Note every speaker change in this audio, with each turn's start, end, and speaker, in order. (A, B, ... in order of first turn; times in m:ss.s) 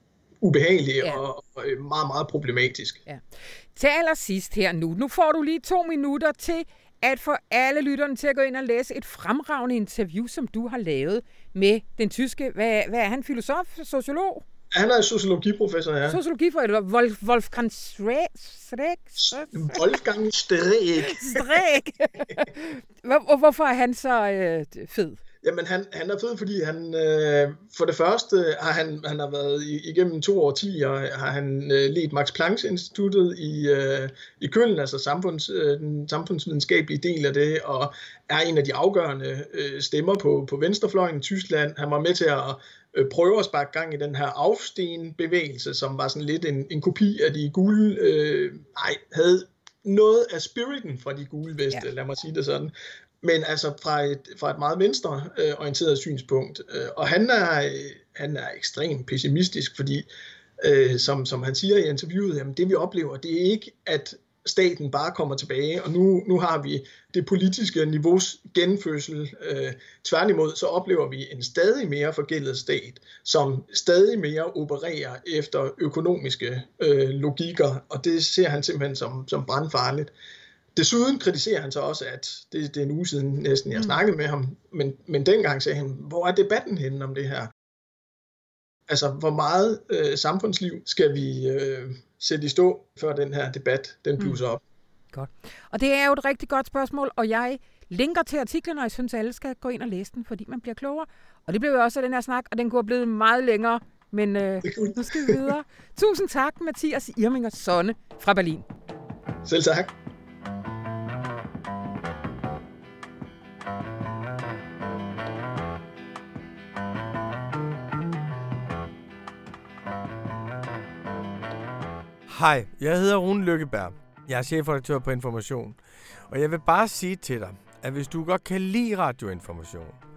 0:00.4-0:03.0 A
0:03.1-0:14.4 B
0:14.7-0:16.2 A
0:16.1-0:19.8 B
0:19.2-0:21.5 A
0:21.0-0:25.2 B
0:25.4-1:00.1 A
1:00.6-1:20.1 A
1:20.8-1:27.5 A
1:28.9-1:34.6 A
1:35.1-1:48.6 B
1:44.6-1:45.5 A
1:49.4-1:49.9 A
2:02.3-2:10.0 C